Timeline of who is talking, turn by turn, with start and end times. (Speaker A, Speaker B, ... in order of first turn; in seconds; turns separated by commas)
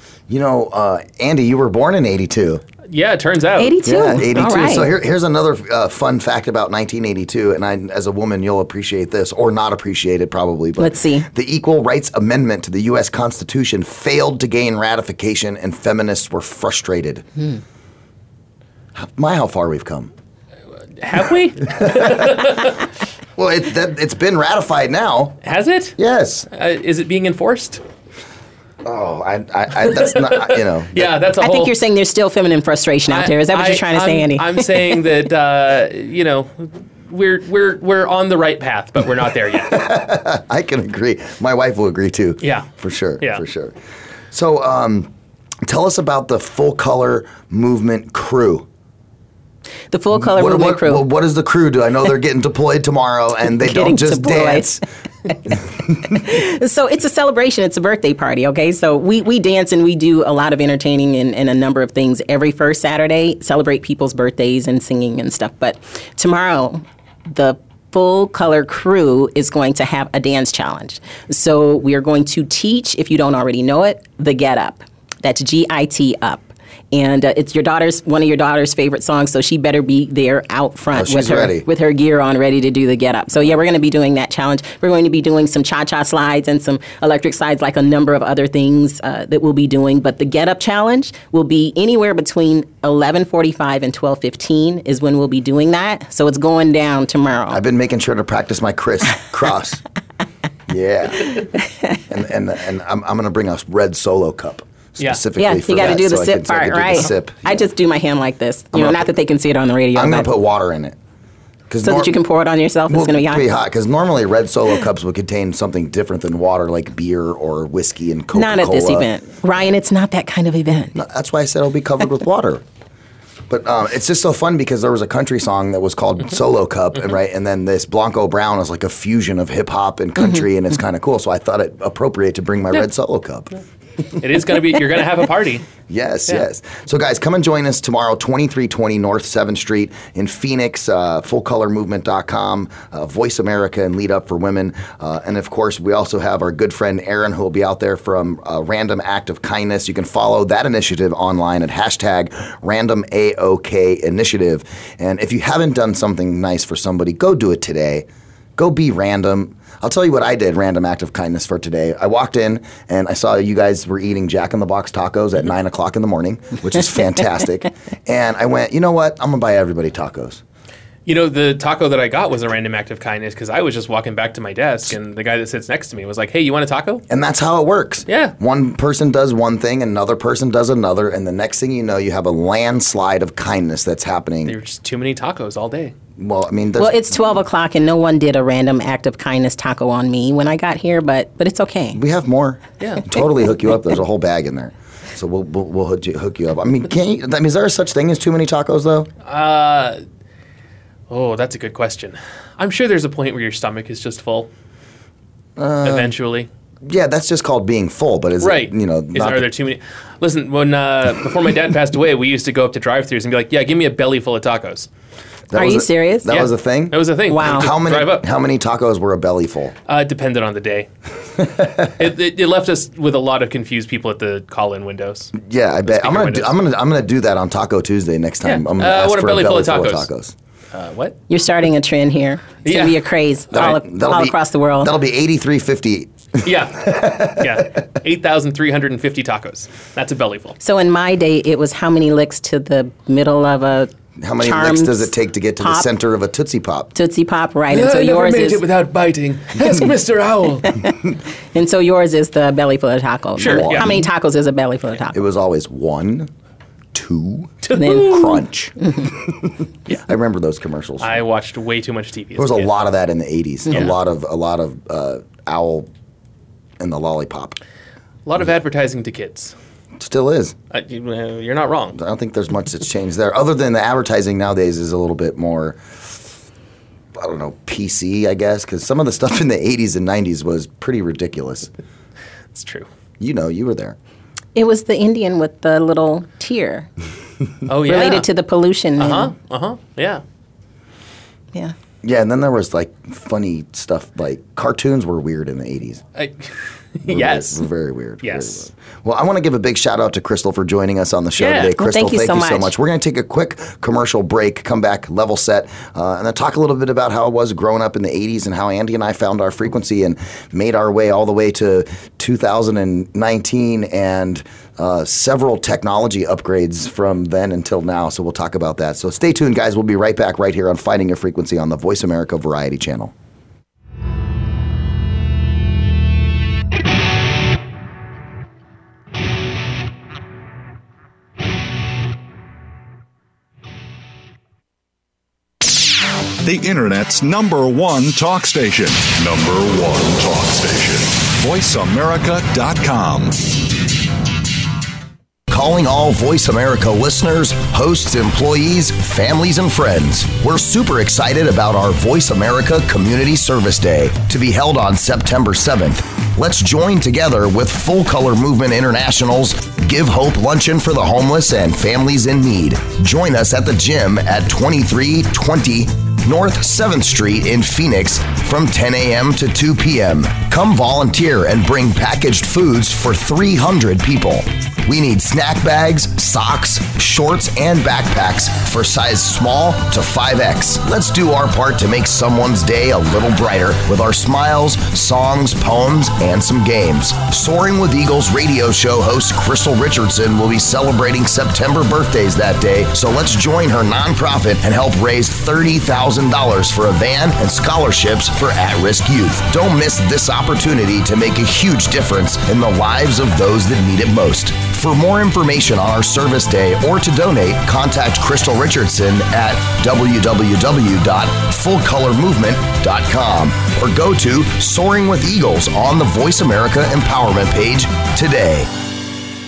Speaker A: 0.3-2.6, Speaker B: 2.9-3.8, Speaker C: 3.6-4.9, Speaker A: 3.9-17.3, Speaker C: 10.8-11.3, Speaker A: 18.9-20.1, Speaker B: 21.0-22.8, Speaker A: 21.7-22.6, Speaker A: 23.4-25.4, Speaker B: 25.4-26.0, Speaker A: 26.0-26.5, Speaker B: 26.5-27.8, Speaker A: 28.8-31.1, Speaker B: 29.9-31.7, Speaker C: 31.4-35.0, Speaker B: 33.1-39.7, Speaker A: 39.6-43.8, Speaker B: 42.4-42.7, Speaker A: 44.3-45.1, Speaker A: 45.6-48.7, Speaker C: 49.9-51.1, Speaker A: 50.1-54.8, Speaker C: 53.5-54.7, Speaker C: 56.0-97.6, Speaker A: 80.9-81.7, Speaker A: 97.5-99.8, Speaker A: 100.7-101.4, Speaker A: 102.1-107.6, Speaker C: 105.4-110.3, Speaker A: 108.7-109.1, Speaker A: 110.0-111.0, Speaker A: 111.7-112.2, Speaker C: 111.8-113.4, Speaker A: 112.9-119.1, Speaker C: 118.3-121.0, Speaker A: 120.9-122.6, Speaker A: 123.5-133.6, Speaker B: 134.2-135.7, Speaker A: 135.9-170.4, Speaker B: 171.1-177.0, Speaker A: 177.1-184.6, Speaker B: 178.1-178.3, Speaker B: 184.4-185.9, Speaker A: 186.2-187.1, Speaker C: 186.8-192.0, Speaker A: 191.9-199.1, Speaker B: 199.2-200.0, Speaker B: 201.1-204.5, Speaker A: 205.6-206.1, Speaker B: 205.8-206.5, Speaker A: 206.8-209.5, Speaker B: 208.4-214.9, Speaker A: 215.5-219.8, Speaker C: 215.6-216.4, Speaker B: 216.3-218.2, Speaker C: 217.3-217.7, Speaker B: 219.9-220.9, Speaker A: 221.4-221.9, Speaker B: 221.8-225.3, Speaker A: 225.3-230.3, Speaker B: 225.9-226.5, Speaker B: 228.4-230.1, Speaker B: 230.7-231.2, Speaker C: 231.3-234.9, Speaker B: 232.7-233.0, Speaker A: 233.5-237.6, Speaker B: 236.4-240.6, Speaker C: 240.6-245.9, Speaker A: 244.2-246.9, Speaker C: 246.9-248.6, Speaker B: 247.7-250.8, Speaker C: 251.5-255.2, Speaker B: 253.4-254.0, Speaker A: 253.4-254.1, Speaker A: 255.1-256.3, Speaker A: 256.9-258.8, Speaker B: 257.6-258.4, Speaker C: 257.7-258.4, Speaker A: 260.0-261.2, Speaker B: 261.0-262.7, Speaker A: 262.4-265.9, Speaker A: 266.8-267.6, Speaker B: 268.3-269.5, Speaker A: 270.0-270.6, Speaker B: 270.7-272.0, Speaker A: 271.9-275.8, Speaker A: 277.2-281.7, Speaker B: 282.5-282.9, Speaker A: 283.2-284.0, Speaker C: 284.6-286.9, Speaker B: 287.7-288.3, Speaker C: 287.9-289.3, Speaker B: 289.0-290.2, Speaker A: 292.0-296.0, Speaker B: 296.2-297.6, Speaker A: 297.1-323.1, Speaker B: 298.2-298.7, Speaker B: 301.4-301.7, Speaker C: 301.8-302.7, Speaker D: 336.4-343.7, Speaker A: 345.5-418.7